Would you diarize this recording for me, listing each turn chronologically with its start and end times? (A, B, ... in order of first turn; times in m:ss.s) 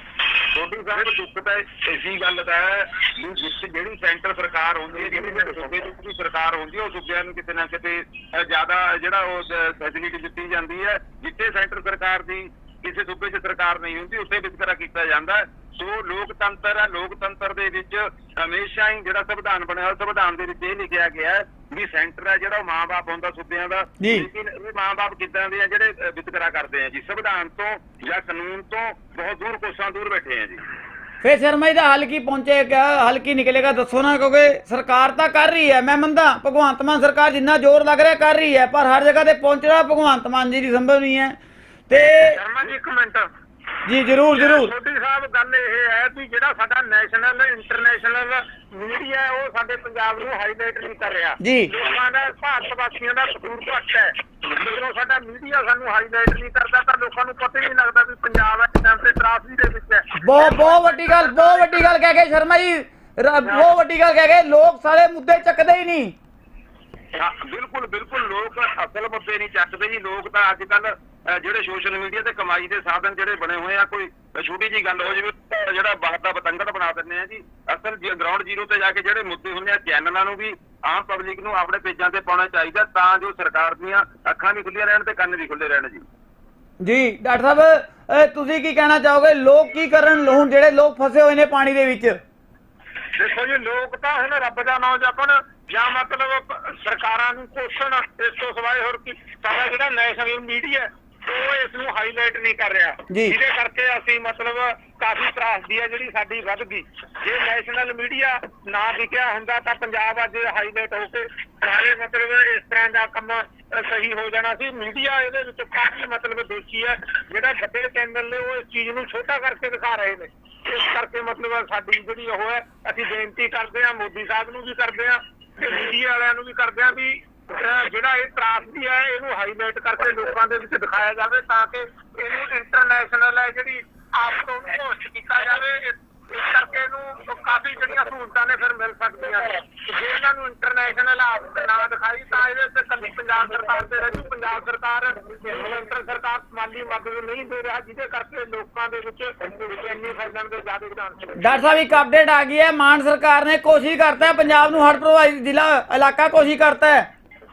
0:00.5-0:30.6 A
0:24.0-0:24.3 B
0:31.2-0:41.4 B
0:41.9-0:42.4 B
0:42.2-0:43.3 C
0:43.9-0:44.7 B
0:44.3-1:01.9 C
0:51.4-0:51.7 B
1:00.2-1:06.2 B
1:07.1-1:26.1 A
1:26.8-1:32.2 B
1:33.2-2:31.6 C
1:43.1-1:43.4 B
2:31.4-2:37.1 B